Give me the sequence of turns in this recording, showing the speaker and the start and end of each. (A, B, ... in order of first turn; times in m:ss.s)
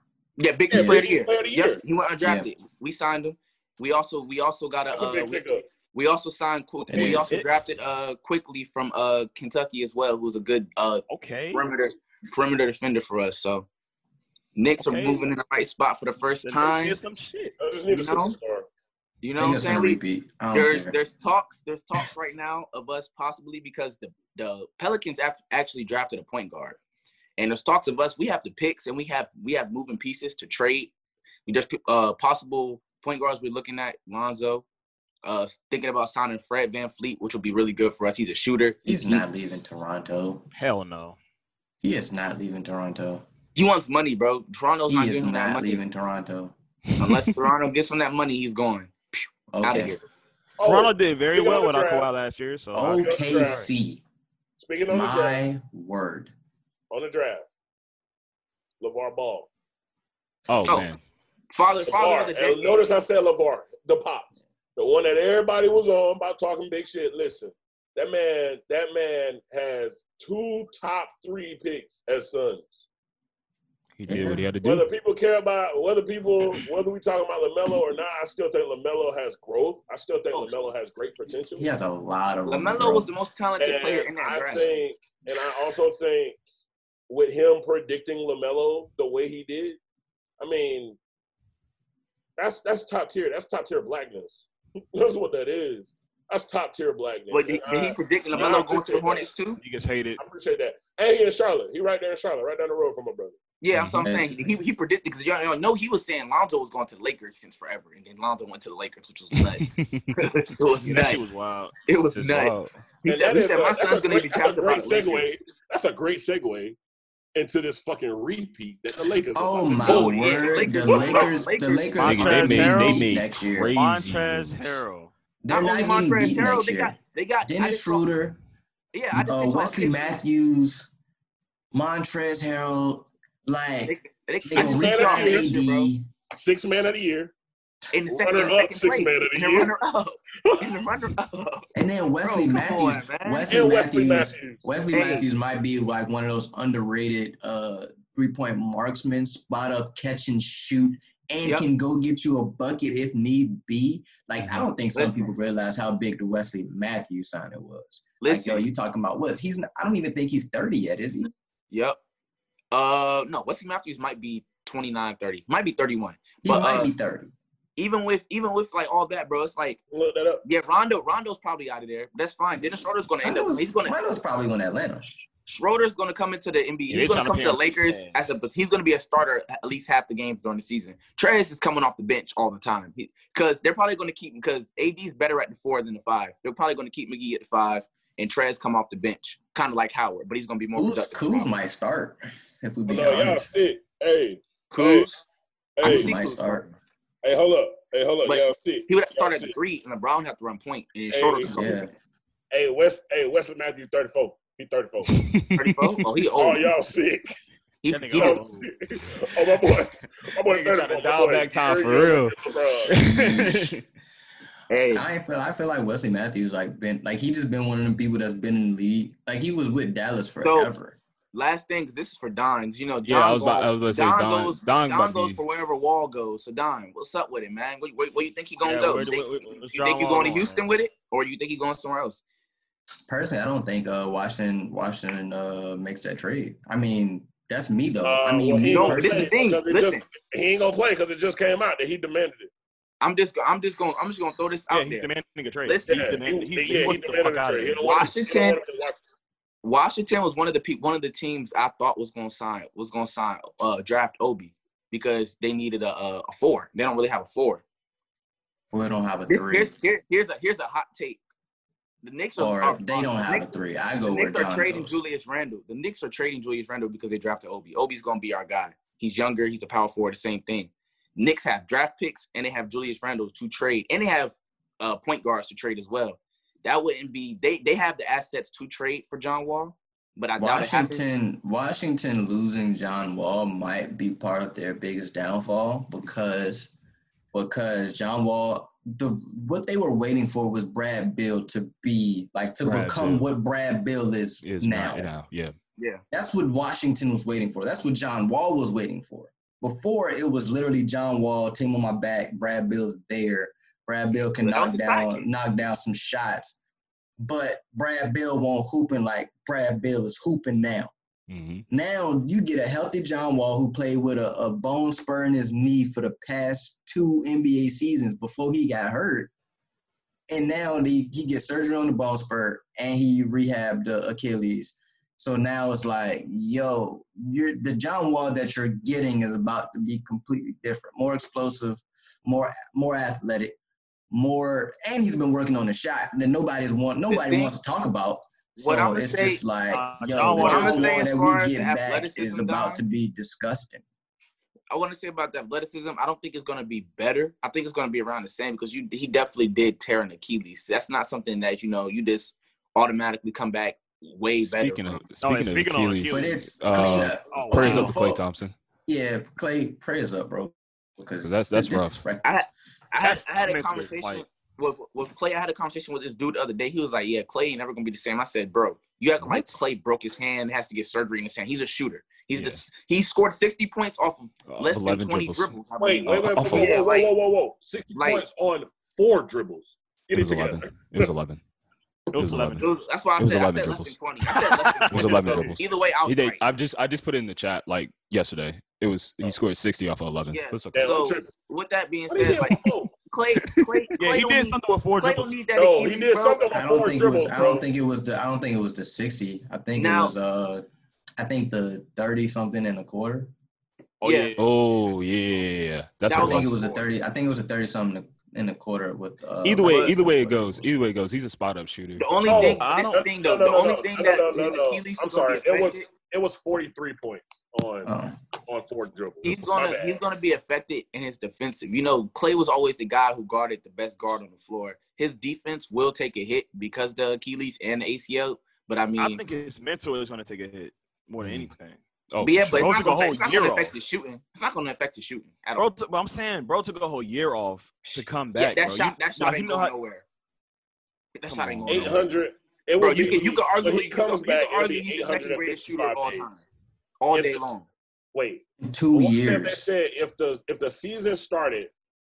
0:00.4-0:13.7 A
0:00.7-0:01.8 B
0:00.7-0:01.0 C
0:02.2-0:02.5 C
0:04.9-0:05.6 B
0:06.9-0:07.4 C
0:07.0-0:07.6 D
0:11.1-0:11.6 D
0:14.6-0:17.0 A
0:14.8-0:15.3 D
0:16.4-0:17.5 D
0:17.6-0:18.7 B
0:17.9-0:18.4 A
0:19.2-0:20.0 A
0:19.4-0:21.0 C
0:20.5-0:26.8 A
0:27.4-0:30.9 A
0:31.4-0:34.6 A
0:35.2-0:39.2 A
0:38.8-0:40.4 C
0:40.5-0:41.2 D
0:41.8-0:43.2 C
0:43.5-0:45.8 A
0:44.9-0:46.5 C
0:47.0-0:50.0 A
0:47.0-0:47.3 E
0:49.5-0:49.9 C
0:50.6-0:52.1 B
0:50.6-0:53.6 D
0:52.7-0:54.0 C
0:52.9-0:53.6 B
0:54.6-0:55.4 B
0:54.9-0:56.3 C
0:56.9-0:57.5 B
0:58.8-0:59.5 B
1:00.5-1:01.0 E
1:00.6-1:00.9 A
1:01.5-1:03.0 A
1:01.9-1:12.8 B
1:14.0-1:14.9 E
1:14.1-1:14.4 C
1:14.6-1:21.7 B
1:21.5-1:23.1 C
1:22.5-1:24.8 A
1:23.6-1:26.4 B
1:27.1-1:29.8 B
1:30.4-1:31.0 B
1:32.4-1:39.3 B
1:37.3-1:39.6 A
1:39.6-1:40.2 D
1:40.2-1:43.4 B
1:43.6-1:55.3 A
1:43.7-1:44.1 E
1:44.0-1:44.4 C
1:49.3-1:50.1 E
1:50.8-1:51.7 D
1:52.1-1:52.7 E
1:53.0-1:56.8 B
1:57.3-2:01.3 B
1:59.3-2:03.7 C
1:59.8-2:02.4 A
2:02.0-2:05.1 D
2:02.0-2:04.8 E
2:05.4-2:08.4 C
2:05.5-2:08.1 A
2:08.9-2:10.2 A
2:09.1-2:10.9 C
2:11.7-2:16.1 C
2:13.8-2:15.9 A
2:14.5-2:15.5 B
2:16.3-2:17.3 B
2:17.9-2:21.7 A
2:18.1-2:19.7 B
2:20.4-2:20.9 B
2:21.7-2:41.3 C
2:22.2-2:23.6 A
2:23.5-2:24.6 B
2:24.9-2:25.2 A
2:34.9-2:35.3 A
2:38.2-2:38.6 A
2:41.7-2:42.0 A
2:42.7-2:46.9 A
2:46.4-2:47.3 C
2:47.8-2:49.8 A
2:49.9-2:50.4 B
2:50.4-2:53.9 A
2:53.2-2:55.2 C
2:55.5-3:11.5 A
2:56.9-2:58.2 D
3:10.7-3:13.5 C
3:12.9-3:15.2 B
3:14.7-3:15.0 C
3:15.8-3:16.1 B
3:15.8-3:16.7 C
3:15.8-3:16.7 A
3:17.2-3:19.5 B
3:18.2-3:21.9 A
3:21.1-3:21.6 B
3:21.5-3:21.9 C
3:22.5-3:25.2 B
3:25.1-3:26.0 E
3:25.5-3:26.7 A
3:26.4-3:27.3 B
3:27.8-3:28.4 A
3:27.9-3:28.7 D
3:28.1-3:32.9 B
3:30.4-3:32.3 D
3:32.9-3:33.8 C
3:33.0-3:33.8 E
3:34.7-3:35.0 A
3:34.9-3:41.0 C
3:40.4-3:40.7 A
3:41.3-3:52.2 A
3:43.0-3:45.4 E
3:48.6-3:50.6 D
3:53.1-3:59.3 C
3:58.0-4:02.5 B
3:58.6-4:00.0 A
4:03.0-4:05.1 A
4:04.7-4:07.9 D
4:05.6-4:06.1 A
4:05.9-4:09.0 B
4:07.8-4:08.6 A
4:09.6-4:17.6 A
4:18.7-4:19.7 C
4:19.3-4:21.2 A
4:22.0-4:23.5 A
4:22.4-4:25.0 C
4:24.0-4:41.0 A
4:40.4-4:46.7 C
4:47.3-4:55.1 C
4:52.6-4:53.2 E
4:54.4-4:55.5 E
4:56.1-5:06.6 C
5:04.4-5:05.2 A
5:07.2-5:10.9 C
5:11.3-5:11.6 E
5:11.7-5:19.3 C
5:20.3-5:33.6 C
5:34.1-5:43.8 C
5:37.1-5:37.5 A
5:38.6-5:39.4 A
5:39.7-5:41.1 D
5:40.4-5:42.8 A
5:44.7-5:55.0 A
5:54.4-5:58.5 E
5:55.2-5:56.4 D
5:56.1-5:58.2 C
5:57.3-5:57.9 D
5:58.8-6:02.4 C
6:01.2-6:02.0 E
6:02.2-6:17.1 A
6:03.0-6:04.2 D
6:09.2-6:09.6 E
6:14.5-6:16.7 E
6:15.8-6:21.1 B
6:17.9-6:18.2 A
6:20.1-6:21.4 E
6:22.1-6:22.8 D
6:22.1-6:30.9 E
6:22.6-6:26.4 A
6:24.2-6:24.9 D
6:24.9-6:25.6 B
6:30.3-6:36.4 A
6:30.7-6:31.3 B
6:32.1-6:33.0 B
6:33.4-6:34.0 E
6:34.0-6:35.3 D
6:35.5-6:37.6 B
6:36.5-6:40.6 C
6:39.7-6:40.1 A
6:41.2-6:43.3 C
6:44.0-6:44.4 D
6:44.0-6:44.4 A
6:44.4-6:46.6 E
6:46.1-6:46.8 A
6:46.1-6:50.7 C
6:49.4-6:52.2 E
6:49.6-6:49.9 D
6:52.0-6:55.9 A
6:52.3-6:53.0 D
6:52.3-6:57.9 B
6:57.8-6:58.2 C
6:58.4-7:00.0 B
6:59.2-7:09.2 A
7:09.0-7:11.8 D
7:11.2-7:11.5 E
7:12.1-7:12.8 E
7:12.2-7:15.7 A
7:12.5-7:13.7 D
7:15.6-7:19.7 D
7:18.4-7:20.0 A
7:21.1-7:22.1 A
7:21.3-7:21.9 D
7:21.5-7:22.0 E
7:21.7-7:26.2 B
7:22.8-7:26.4 A
7:27.0-7:27.6 A
7:27.1-7:27.4 B
7:28.1-7:31.7 B
7:28.6-7:29.7 C